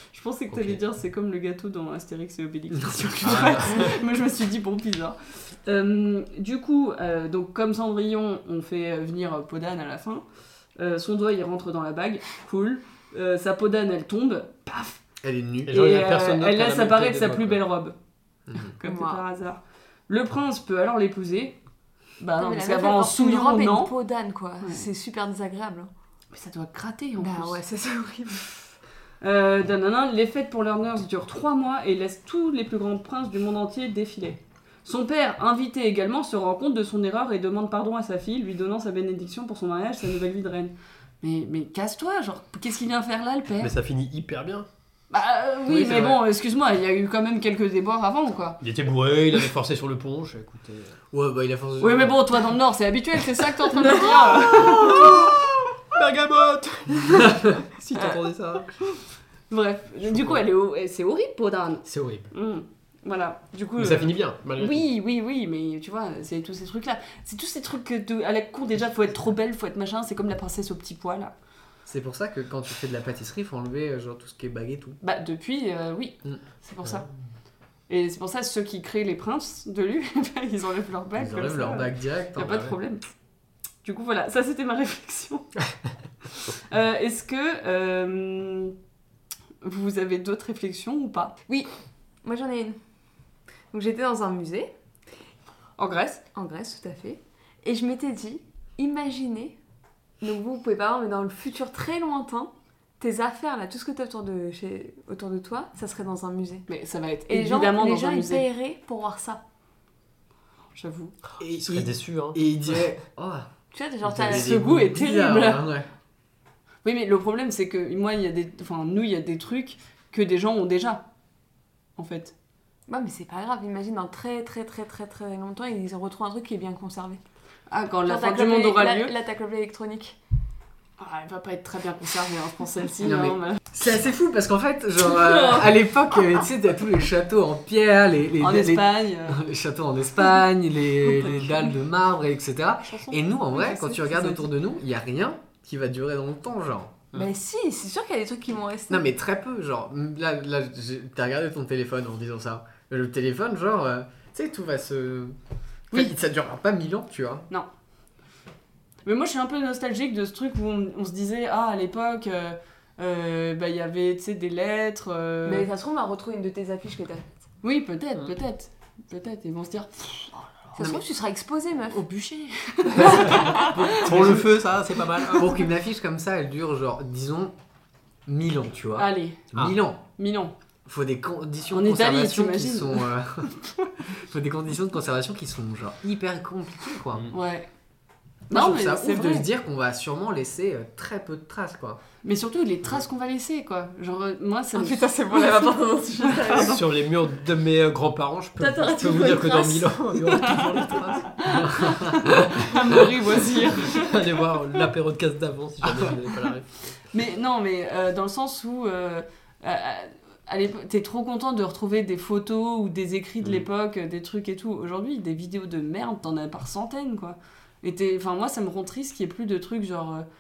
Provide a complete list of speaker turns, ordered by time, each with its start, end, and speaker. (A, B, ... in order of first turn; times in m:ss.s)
0:00.1-0:10.2 A
0:00.5-0:00.8 B
0:03.2-0:04.0 B
0:10.8-0:15.0 A
0:15.2-0:15.8 C
0:15.7-0:17.6 B
0:15.7-0:18.0 A
0:18.5-0:18.7 C
0:18.8-0:21.6 A
0:18.8-0:19.2 D
0:22.2-0:23.9 A
0:22.4-0:25.9 D
0:26.3-0:27.6 A
0:27.2-0:28.7 D
0:29.2-0:43.7 A
0:43.6-0:44.7 B
0:45.1-0:48.6 A
0:45.7-0:46.2 C
0:48.6-0:51.0 B
0:51.1-0:52.2 C
0:51.8-0:55.2 A
0:54.5-0:58.7 B
0:57.2-0:57.5 C
0:59.5-1:11.3 A
1:00.0-1:00.4 B
1:01.9-1:02.3 B
1:03.8-1:04.8 B
1:11.9-1:15.0 C
1:15.0-1:17.1 A
1:17.9-1:23.0 A
1:21.2-1:22.6 C
1:22.4-1:22.8 B
1:23.8-1:25.5 A
1:26.4-1:28.7 A
1:29.6-1:31.4 A
1:32.2-1:32.8 D
1:33.7-1:34.7 D
1:35.8-1:36.2 A
1:36.3-1:39.6 D
1:40.2-1:46.7 D
1:46.7-1:48.5 A
1:47.3-1:49.4 D
1:50.8-1:51.1 A
1:51.4-1:53.5 C
1:51.4-1:52.8 B
1:53.7-1:54.6 D
1:54.1-1:55.9 C
1:54.2-1:55.7 A
1:56.8-2:01.0 A
2:02.0-2:02.3 A
2:02.9-2:07.2 D
2:07.7-2:09.1 A
2:08.1-2:10.2 D
2:11.0-2:13.6 A
2:13.0-2:27.1 C
2:15.1-2:15.8 D
2:18.4-2:19.4 A
2:22.8-2:24.5 A
2:27.1-2:29.0 D
2:28.9-2:35.4 C
2:35.9-2:37.5 C
2:39.0-2:45.7 A
2:45.4-2:47.4 D
2:47.6-2:50.8 A
2:50.8-2:52.0 D
2:51.9-2:54.4 A
2:53.0-2:55.5 B
2:53.9-2:54.5 C
2:55.3-2:57.5 C
2:58.3-3:00.0 C
2:59.0-2:59.5 A
3:00.2-3:00.5 A
3:00.8-3:03.5 C
3:01.7-3:03.1 A
3:03.6-3:03.9 A
3:04.1-3:07.2 C
3:07.3-3:07.7 A
3:08.5-3:09.5 A
3:08.5-3:12.0 C
3:12.2-3:15.5 A
3:14.7-3:16.8 D
3:16.3-3:16.6 A
3:16.5-3:21.5 B
3:18.6-3:21.0 D
3:21.4-3:24.2 A
3:21.5-3:22.3 C
3:22.6-3:23.1 B
3:23.8-3:26.7 B
3:27.1-3:40.3 A